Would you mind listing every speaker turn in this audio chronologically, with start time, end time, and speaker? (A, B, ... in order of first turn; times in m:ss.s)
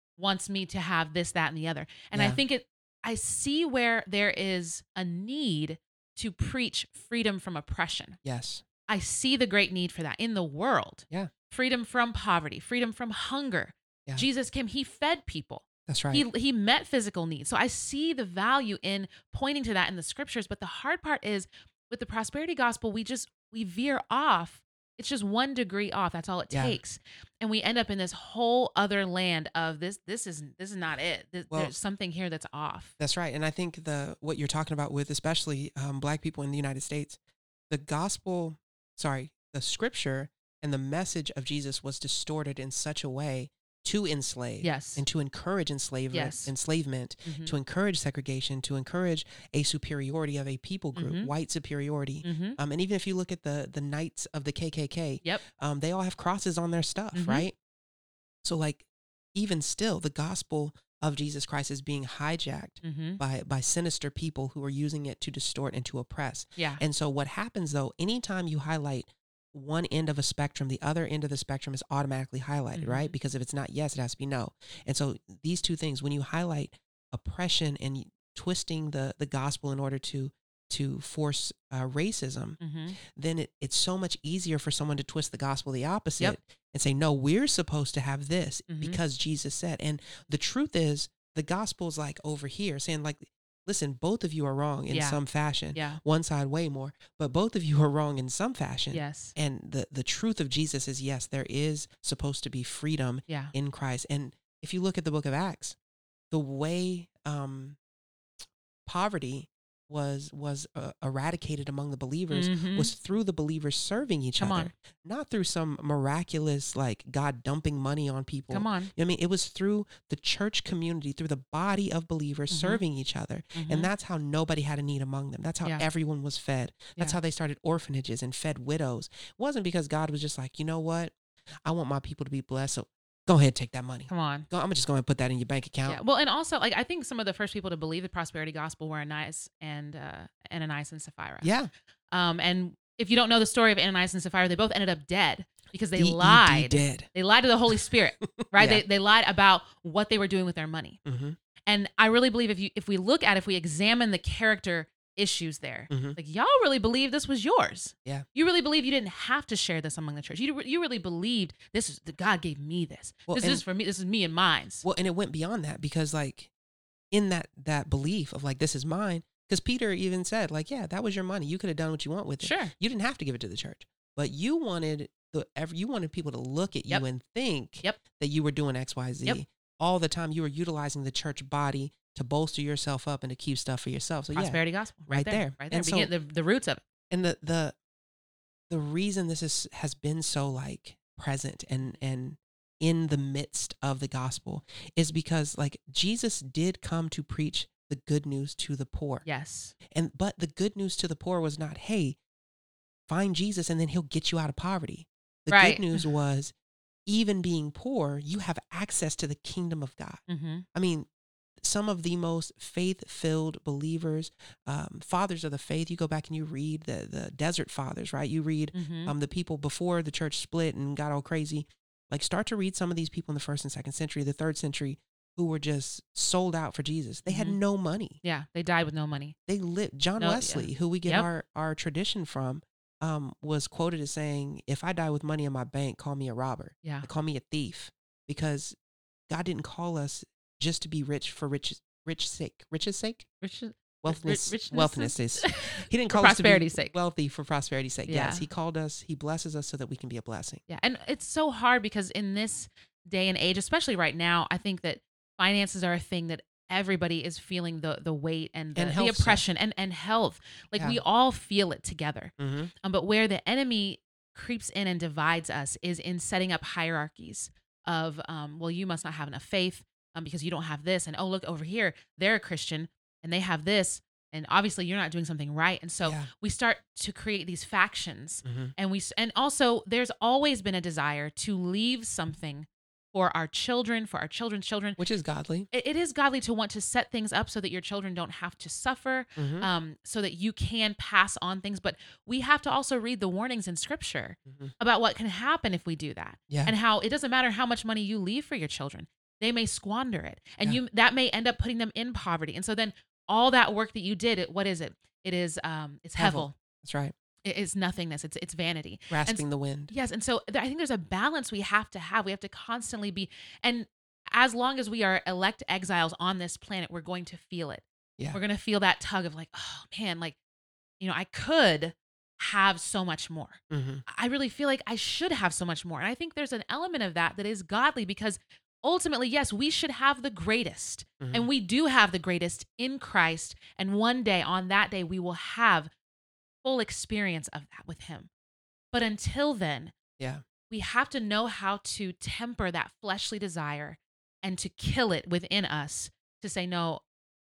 0:00.2-0:08.2 A
0:02.1-0:02.4 B
0:08.2-0:08.6 B
0:08.9-0:32.9 A
0:15.9-0:16.2 B
0:26.5-0:26.8 B
0:33.0-0:37.2 B
0:37.7-0:57.5 B
0:44.6-0:45.0 A
0:46.1-0:46.5 A
0:47.2-0:47.5 A
0:51.0-0:51.3 A
0:52.2-0:52.6 A
0:57.1-0:57.4 A
0:58.4-1:45.8 B
1:02.8-1:03.2 A
1:06.6-1:06.8 A
1:12.8-1:13.1 A
1:22.6-1:23.0 A
1:28.7-1:29.0 A
1:34.9-1:35.2 A
1:35.7-1:36.0 A
1:38.9-1:39.3 A
1:43.3-1:43.5 A
1:46.3-1:47.8 B
1:48.8-2:16.0 B
1:52.3-1:52.9 A
1:54.4-1:54.7 A
1:58.5-1:58.9 A
2:02.5-2:02.8 A
2:03.5-2:03.9 A
2:14.1-2:14.5 A
2:15.8-2:21.5 A
2:21.4-2:21.7 B
2:22.1-2:31.0 A
2:26.0-2:27.1 B
2:28.2-2:28.8 B
2:31.0-2:31.4 B
2:31.7-2:44.8 A
2:35.9-2:36.2 B
2:43.3-2:43.6 B
2:44.8-2:46.5 B
2:47.1-3:06.1 B
2:52.4-2:52.7 A
3:04.3-3:06.8 A
3:07.1-3:07.7 B
3:08.7-3:19.2 B
3:19.2-3:19.7 A
3:19.9-3:22.2 B
3:23.1-3:26.5 B
3:25.5-3:26.0 A
3:27.0-3:30.2 B
3:30.3-3:30.6 A
3:30.7-3:31.1 B
3:31.6-3:48.2 B
3:38.7-3:39.1 A
3:47.2-3:47.6 A
3:48.2-3:49.3 A
3:49.5-3:58.8 B
3:50.2-3:51.3 A
3:59.3-4:03.3 B
4:03.4-4:07.0 A
4:04.0-4:10.6 B
4:08.1-4:08.4 A
4:10.7-4:45.0 A
4:18.7-4:19.4 B
4:20.8-4:21.0 B
4:22.4-4:22.7 B
4:36.0-4:36.3 B
4:38.4-4:38.7 B
4:45.0-4:45.7 B
4:45.7-5:06.5 A
4:49.4-4:49.7 B
4:54.5-4:54.7 B
4:56.5-4:56.7 B
5:06.2-5:07.1 B
5:07.4-5:20.4 A
5:09.1-5:09.9 B
5:21.0-5:35.9 A
5:23.7-5:24.0 B
5:31.2-5:31.5 B
5:36.6-5:38.3 A
5:38.9-5:39.9 A
5:40.7-5:47.0 A